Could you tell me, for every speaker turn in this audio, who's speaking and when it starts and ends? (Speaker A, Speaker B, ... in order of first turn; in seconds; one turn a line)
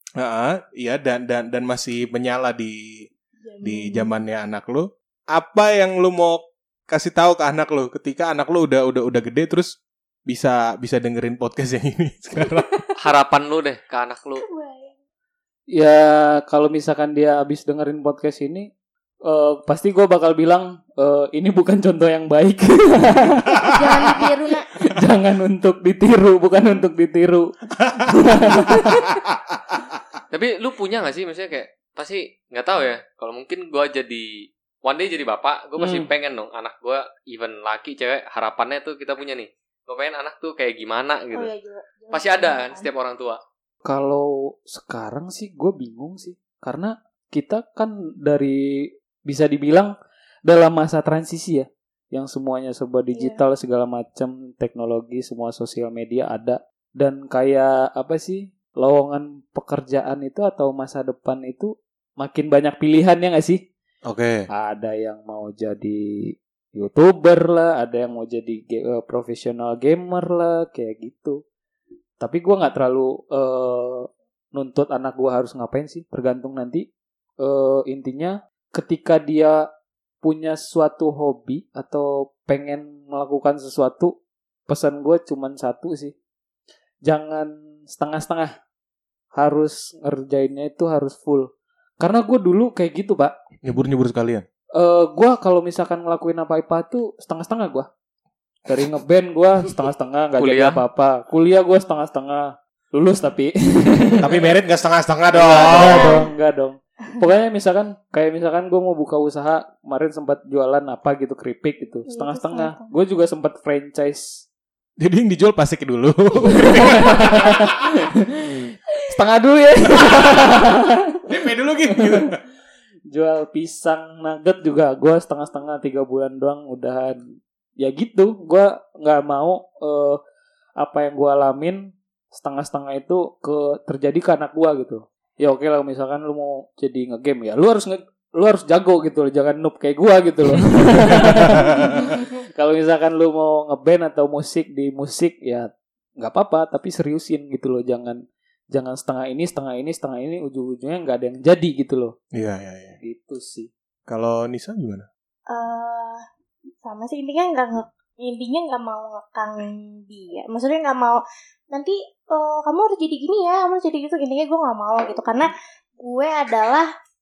Speaker A: 0.2-3.1
Speaker B: 3.4-4.2
Speaker A: 3.6-9.7
Speaker A: 10.3-12.7
Speaker B: 12.4-12.8
Speaker C: 13.0-14.4
Speaker B: 14.4-14.9
Speaker D: 15.7-18.7
Speaker D: 19.2-23.7
Speaker B: 23.6-24.7
Speaker D: 24.8-29.1
Speaker A: 28.7-28.9
Speaker C: 30.3-41.5
Speaker D: 35.8-36.1
Speaker B: 41.3-42.9
Speaker C: 42.1-43.4
Speaker D: 43.8-49.9
Speaker D: 50.5-63.6
Speaker B: 53.1-53.4
Speaker A: 64.0-64.5
Speaker D: 64.5-71.4
Speaker D: 72.2-76.9
Speaker D: 77.4-79.7
Speaker D: 80.2-84.2
Speaker D: 84.7-86.2
Speaker D: 87.1-88.5
Speaker D: 89.4-93.3
Speaker A: 93.6-94.5
Speaker D: 94.8-97.9
Speaker D: 98.7-104.3
Speaker C: 100.4-100.8
Speaker A: 104.2-106.2
Speaker D: 105.3-114.5
Speaker B: 105.6-106.3
Speaker B: 112.1-112.9
Speaker A: 115.0-117.7
Speaker D: 116.4-121.3
Speaker A: 121.3-122.4
Speaker D: 121.9-122.3
Speaker D: 123.1-130.2
Speaker D: 130.8-152.2
Speaker A: 141.1-141.9
Speaker A: 152.3-153.0
Speaker D: 153.0-153.7
Speaker A: 154.1-155.1
Speaker B: 155.5-156.2
Speaker B: 156.8-166.9